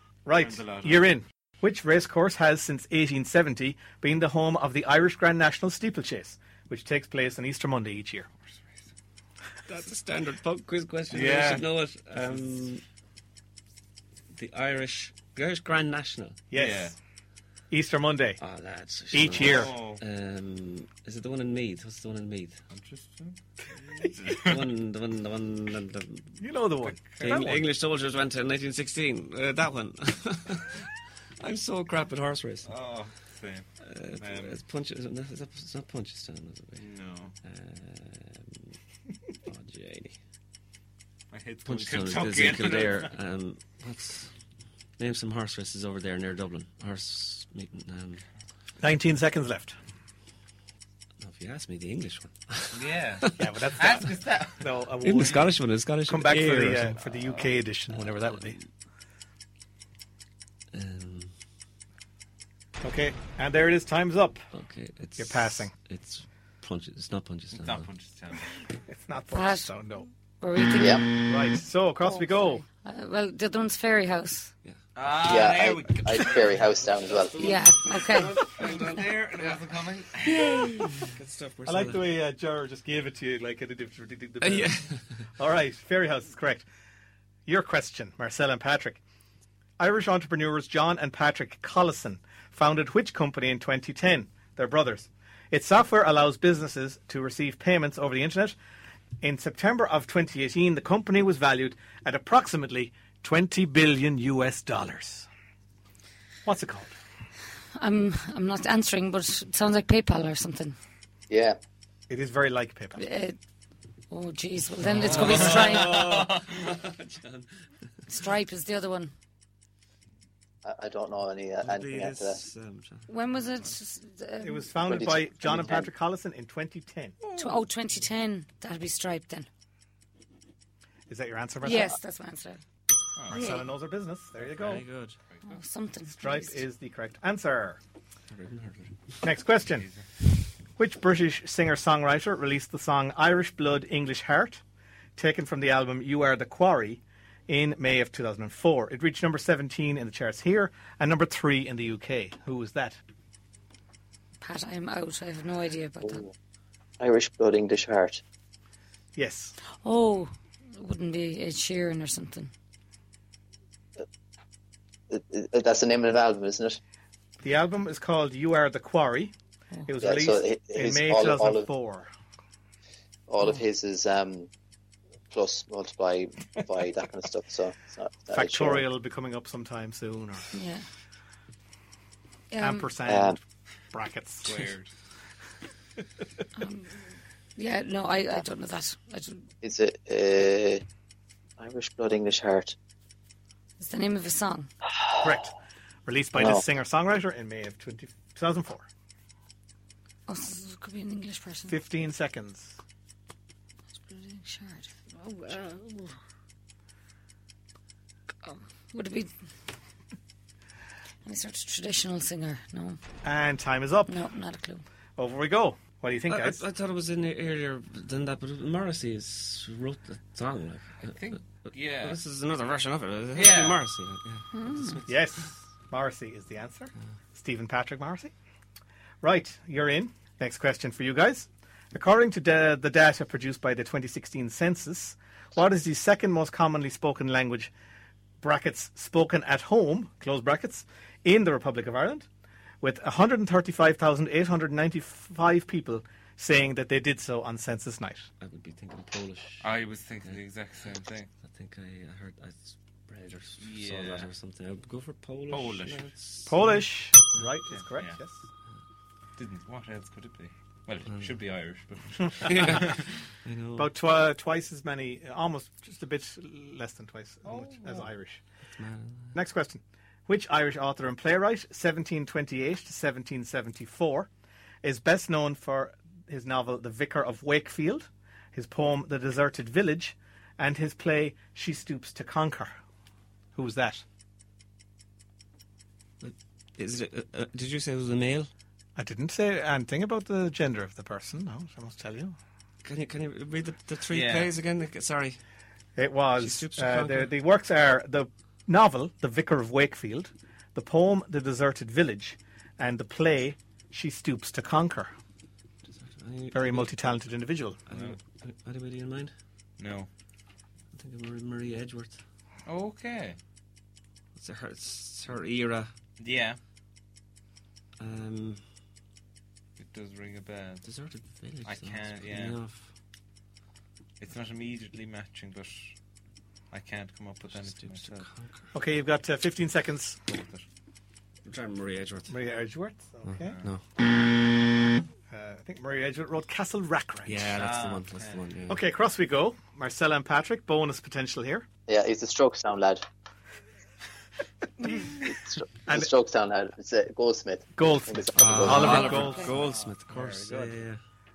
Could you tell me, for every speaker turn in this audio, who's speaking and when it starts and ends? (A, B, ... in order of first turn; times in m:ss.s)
0:00.2-0:08.3 A
0:00.3-0:01.1 B
0:08.4-0:08.9 B
0:09.7-0:12.8 C
0:11.1-0:12.5 B
0:14.3-0:16.4 C
0:16.5-0:16.9 A
0:16.5-0:16.9 B
0:17.7-0:18.4 A
0:18.4-0:22.6 C
0:19.1-0:19.8 A
0:19.3-0:20.0 B
0:22.7-0:23.4 B
0:23.9-0:24.7 B
0:24.3-0:26.4 C
0:26.4-0:27.6 A
0:26.9-0:27.4 B
0:27.2-0:30.9 C
0:31.4-0:32.8 C
0:32.6-0:34.6 B
0:33.8-0:36.9 C
0:36.8-0:37.3 B
0:37.4-0:38.8 C
0:39.4-0:40.2 C
0:41.3-0:43.1 B
0:41.6-0:44.3 C
0:45.0-0:48.2 C
0:48.8-0:49.7 A
0:51.2-0:54.1 C
0:52.7-0:54.7 B
0:53.4-0:55.4 A
0:55.0-0:57.0 C
0:56.0-0:58.6 A
0:57.1-0:57.5 B
1:00.7-1:01.3 C
1:02.8-1:04.4 A
1:04.5-1:07.9 C
1:05.2-1:05.7 A
1:07.5-1:08.6 B
1:08.9-1:10.1 A
1:09.3-1:09.7 D
1:10.4-1:11.2 D
1:10.8-1:11.2 E
1:11.3-1:12.6 A
1:12.0-1:14.5 D
1:15.0-1:16.7 B
1:15.2-1:17.3 E
1:17.0-1:19.7 C
1:17.4-1:18.3 D
1:18.4-1:20.5 B
1:20.2-1:22.0 C
1:21.6-1:24.8 A
1:24.4-1:25.0 C
1:25.4-1:26.6 A
1:27.4-1:29.0 A
1:29.8-1:38.6 A
1:39.2-1:45.3 A
1:46.4-1:46.9 A
1:47.8-1:50.8 D
1:51.3-1:51.6 E
1:52.1-1:53.0 A
1:53.0-1:53.4 D
1:54.1-1:56.0 D
1:54.8-1:57.5 C
1:54.9-1:56.5 B
1:58.1-1:59.1 D
2:00.6-2:02.4 E
2:01.6-2:03.0 C
2:03.1-2:04.8 D
2:04.4-2:07.2 A
2:04.8-2:05.9 E
2:07.3-2:09.5 D
2:11.1-2:12.0 A
2:11.6-2:12.6 D
2:13.2-2:13.5 B
2:13.3-2:14.8 A
2:13.3-2:13.6 D
2:14.5-2:15.2 C
2:15.4-2:16.6 D
2:16.1-2:17.8 A
2:18.3-2:19.2 C
2:19.2-2:19.9 A
2:20.8-2:24.6 A
2:25.2-2:33.0 A
2:34.4-2:36.2 D
2:37.0-2:38.2 E
2:39.1-2:39.6 A
2:39.7-2:42.5 D
2:45.1-2:46.8 E
2:47.4-2:49.3 A
2:49.8-2:52.1 A
2:50.0-2:51.7 E
2:53.3-2:54.5 E
2:55.3-2:58.8 E
2:58.3-3:00.5 A
3:00.5-3:00.8 D
3:02.5-3:02.9 D
3:02.6-3:03.4 A
3:03.0-3:03.4 E
3:03.9-3:04.6 A
3:04.4-3:04.9 B
3:06.6-3:07.0 D
3:07.6-3:09.4 D
3:09.6-3:10.8 E
3:11.6-3:12.7 E
3:13.8-3:14.7 D
3:15.2-3:15.5 A
3:16.0-3:18.8 A
3:16.4-3:16.6 E
3:20.3-3:21.8 D
3:21.7-3:22.8 A
3:24.0-3:26.1 D
3:28.4-3:29.3 D
3:31.2-3:33.0 D
3:33.2-3:34.2 A
3:34.1-3:34.8 D
3:35.2-3:36.6 A
3:36.3-3:45.5 C
3:41.1-3:42.2 B
3:43.3-3:43.8 B
3:44.5-3:45.0 D
3:45.1-3:48.3 A
3:49.2-3:57.7 A
3:58.4-4:02.3 A
4:02.8-4:08.3 A
4:08.4-4:09.7 C
4:09.6-4:11.3 B
4:11.4-4:17.5 C
4:13.6-4:14.3 B
4:15.5-4:16.1 B
4:16.5-4:18.4 A
4:17.7-4:18.2 B
4:19.4-4:23.0 B
4:21.1-4:21.4 C
4:22.4-4:23.9 C
4:23.8-4:28.4 A
4:27.4-4:28.1 B
4:28.8-4:29.3 C
4:29.3-4:34.3 A
4:34.8-4:42.7 A
4:43.5-4:44.0 A
4:46.2-4:48.5 C
4:49.0-4:52.4 A
4:52.8-4:55.4 C
4:54.1-4:54.5 B
4:56.0-5:05.1 A
4:56.4-4:57.3 C
5:05.8-5:06.9 C
5:06.5-5:07.8 A
5:07.9-5:09.3 C
5:07.9-5:08.2 B
5:09.8-5:10.1 B
5:10.9-5:12.2 C
5:12.6-5:13.4 B
5:14.4-5:15.9 C
5:16.2-5:16.6 B
5:18.0-5:18.6 C
5:19.8-5:20.8 B
5:20.8-5:22.9 C
5:21.6-5:22.6 B
5:24.2-5:26.0 B
5:26.7-5:28.3 B
5:27.5-5:28.7 C
5:28.7-5:30.2 A
5:30.3-5:30.6 B
5:31.4-5:32.4 C
5:32.3-5:33.6 A
5:33.2-5:33.8 C
5:33.4-5:33.7 B
5:35.3-5:37.5 A
5:37.2-5:38.8 C
5:37.6-5:38.4 B
5:38.7-5:41.7 A
5:41.9-5:43.0 E
5:45.2-5:49.1 E
5:47.8-5:50.8 A
5:48.3-5:51.0 C
5:48.7-5:49.5 D
5:48.8-5:49.9 B